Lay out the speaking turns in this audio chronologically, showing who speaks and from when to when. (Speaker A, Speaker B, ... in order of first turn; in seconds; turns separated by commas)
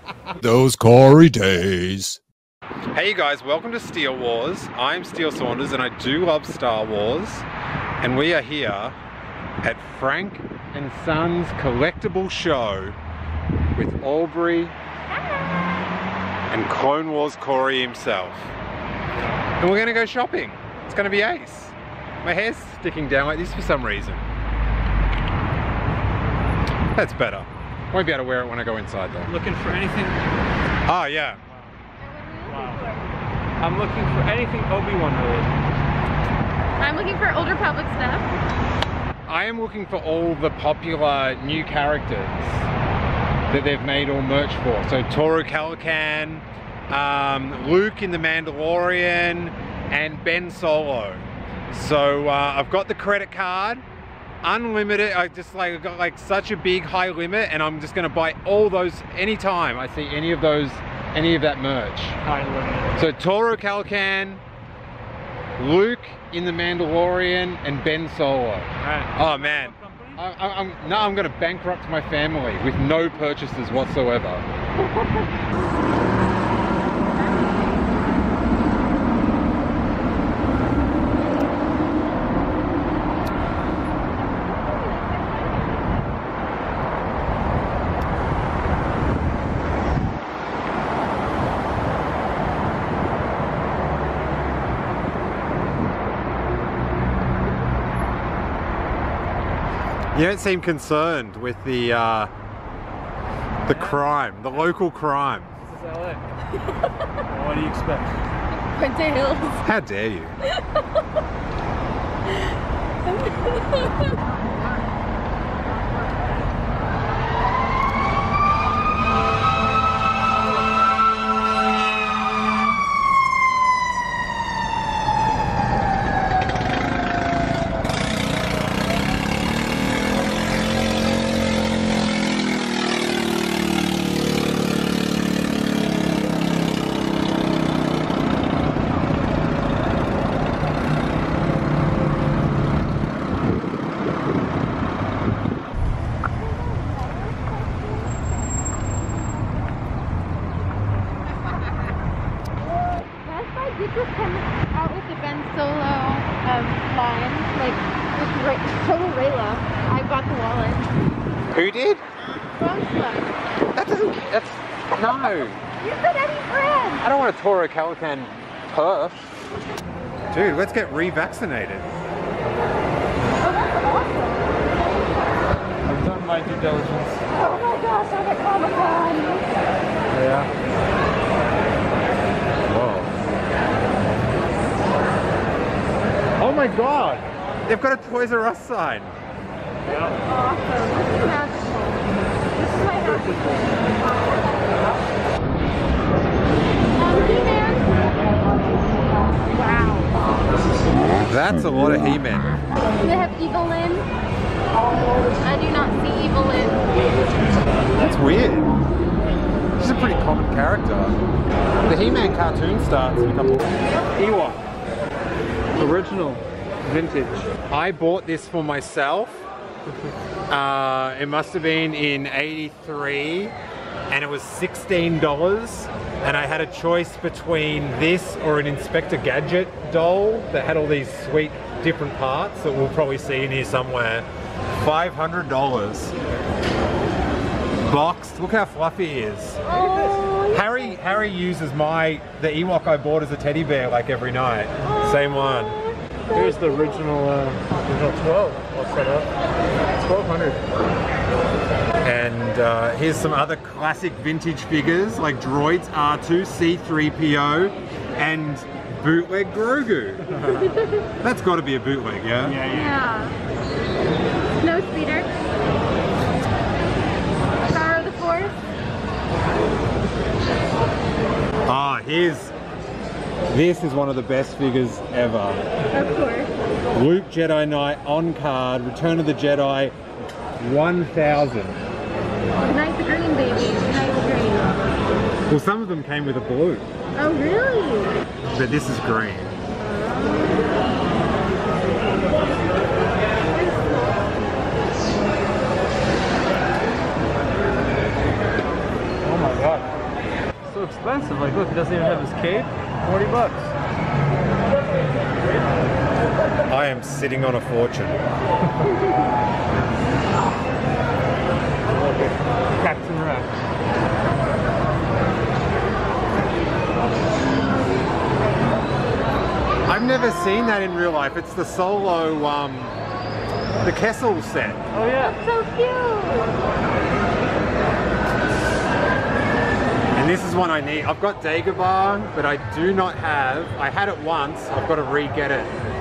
Speaker A: 0.3-2.2, Speaker A: 2.9-7.5, Speaker A: 8.0-8.9, Speaker A: 9.6-12.9, Speaker A: 13.7-14.7, Speaker B: 15.1-15.7, Speaker A: 16.5-18.5, Speaker A: 19.6-24.2, Speaker A: 26.9-29.3, Speaker C: 29.3-30.2, Speaker A: 30.9-31.4, Speaker B: 32.0-33.1, Speaker C: 32.5-32.9, Speaker C: 33.6-35.5, Speaker B: 36.8-38.4, Speaker A: 39.3-42.6, Speaker A: 43.5-53.8, Speaker A: 54.4-62.2, Speaker C: 62.2-62.9, Speaker A: 62.9-64.4, Speaker A: 65.6-74.4, Speaker C: 68.8-70.2, Speaker A: 100.1-102.3, Speaker A: 103.6-105.5, Speaker C: 103.6-104.1, Speaker C: 105.6-106.3, Speaker C: 107.2-108.3, Speaker B: 108.7-109.6, Speaker A: 109.6-110.3, Speaker B: 113.1-113.9, Speaker B: 146.3-148.3, Speaker B: 153.2-160.8, Speaker A: 161.5-162.0, Speaker B: 162.6-163.3, Speaker A: 163.7-165.6, Speaker B: 165.8-167.1, Speaker A: 167.0-169.3, Speaker A: 170.3-171.9, Speaker B: 173.4-174.4, Speaker C: 175.8-177.2, Speaker B: 177.4-179.5, Speaker C: 180.1-180.5, Speaker A: 182.7-183.1, Speaker A: 186.4-189.1, Speaker C: 189.8-190.2, Speaker B: 190.2-192.0, Speaker B: 192.6-193.4, Speaker C: 193.0-193.8, Speaker B: 197.0-198.0, Speaker B: 199.5-200.1, Speaker A: 201.2-202.6, Speaker B: 203.0-204.1, Speaker B: 205.4-206.8, Speaker A: 208.0-208.7, Speaker A: 209.8-211.2, Speaker A: 211.9-213.7, Speaker C: 214.1-214.6, Speaker C: 215.8-217.5, Speaker A: 217.7-219.4, Speaker A: 220.5-223.5, Speaker A: 224.1-234.3, Speaker A: 234.8-236.1, Speaker A: 237.8-239.6, Speaker B: 239.6-240.9, Speaker C: 239.7-240.3, Speaker A: 240.5-245.8, Speaker B: 244.8-246.7, Speaker C: 246.3-249.3, Speaker C: 249.9-250.6, Speaker A: 252.0-260.3, Speaker C: 260.3-260.8, Speaker A: 261.2-262.6, Speaker C: 262.4-263.0, Speaker B: 262.6-263.3, Speaker B: 264.6-265.3, Speaker B: 267.7-268.6, Speaker A: 271.7-272.5, Speaker A: 273.5-275.6, Speaker B: 275.9-276.5, Speaker A: 276.9-279.9, Speaker A: 280.6-281.8, Speaker B: 282.6-284.7, Speaker A: 285.5-286.9, Speaker B: 287.2-288.2, Speaker A: 288.5-289.6, Speaker B: 289.8-290.7, Speaker B: 293.6-294.0, Speaker C: 299.2-300.0, Speaker C: 300.6-303.7, Speaker A: 306.7-308.2, Speaker C: 312.0-313.6, Speaker A: 319.9-322.9, Speaker A: 323.8-324.8, Speaker C: 324.9-325.4, Speaker B: 325.4-326.6, Speaker A: 330.1-335.8